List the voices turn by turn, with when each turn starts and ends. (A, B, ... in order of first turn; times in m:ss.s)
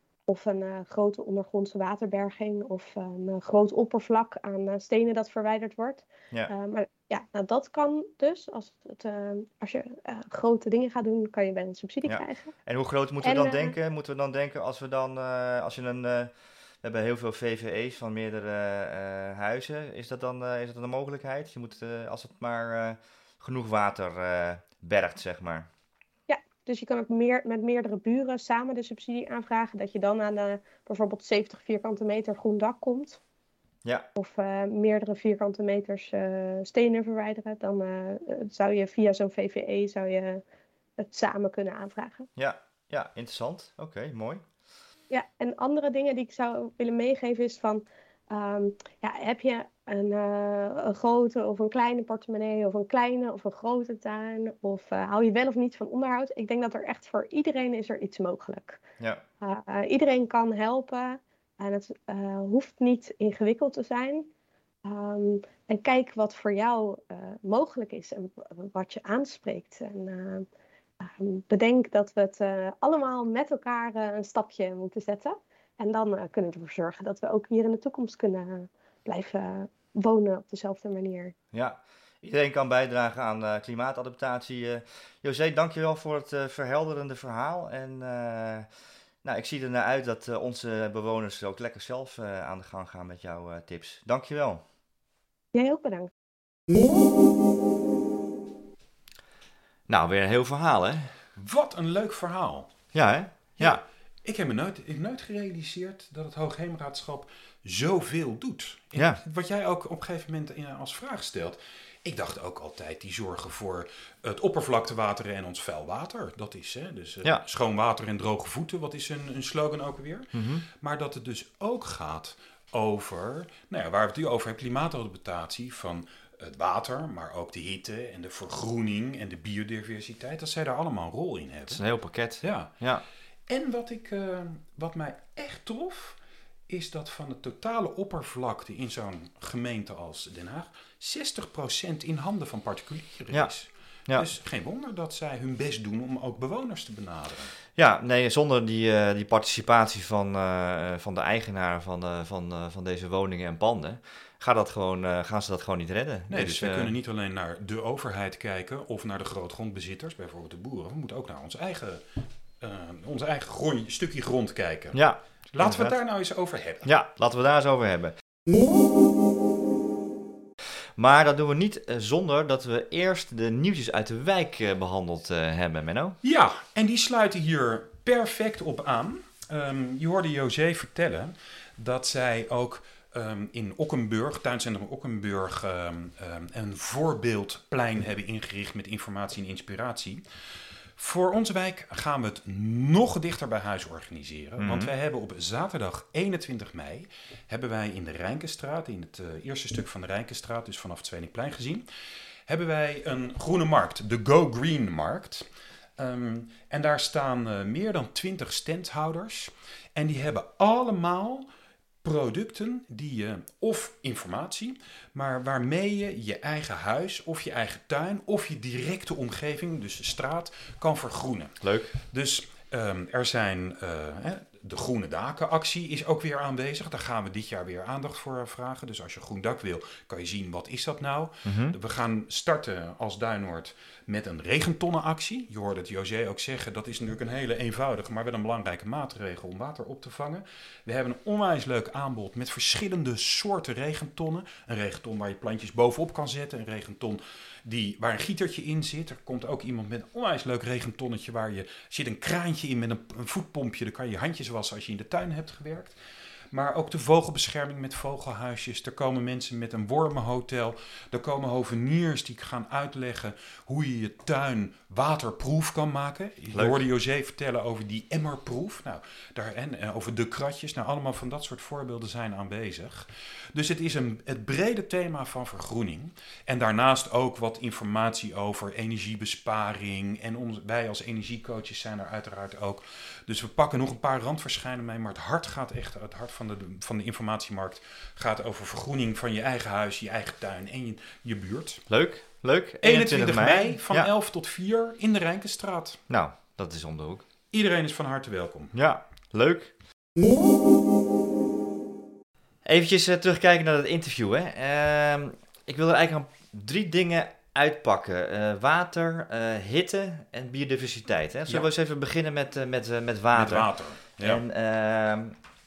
0:00.3-0:12.5 A
0:12.1-0:25.7 B
0:13.2-0:13.8 A
0:26.3-0:33.2 A
0:34.2-0:40.4 A
0:41.0-0:42.3 A
0:42.4-0:44.4 B
0:45.1-0:58.8 A
0:59.4-1:04.3 A
1:04.8-1:10.5 A
1:11.0-1:21.3 A
1:21.5-1:28.7 B
1:29.2-1:34.6 B
1:35.5-1:36.1 A
1:39.9-1:41.1 B
1:41.4-1:42.8 C
1:42.9-1:43.8 B
1:43.6-2:11.8 C
1:49.0-1:49.2 B
2:00.3-2:00.6 B
2:11.7-2:13.0 B
2:12.4-2:12.7 C
2:13.5-2:16.2 C
2:16.7-2:27.5 C
2:27.8-2:36.9 B
2:36.3-2:42.0 C
2:42.6-2:45.0 C
2:44.9-2:46.0 B
2:45.5-2:46.9 C
2:46.8-2:48.2 B
2:51.0-2:56.2 B
2:56.2-3:10.2 C
3:11.0-3:21.8 C
3:14.6-3:14.9 B
3:22.5-3:25.4 C
3:26.0-3:31.5 C
3:32.0-4:16.0 C
3:41.6-3:41.9 B
3:51.4-3:51.8 B
4:16.5-4:51.8 C
4:51.9-4:54.1 B
4:52.8-4:56.0 C
4:56.1-4:57.3 B
4:57.5-4:58.7 C
4:58.7-4:59.7 B
5:02.6-5:15.4 B
5:13.3-5:14.4 C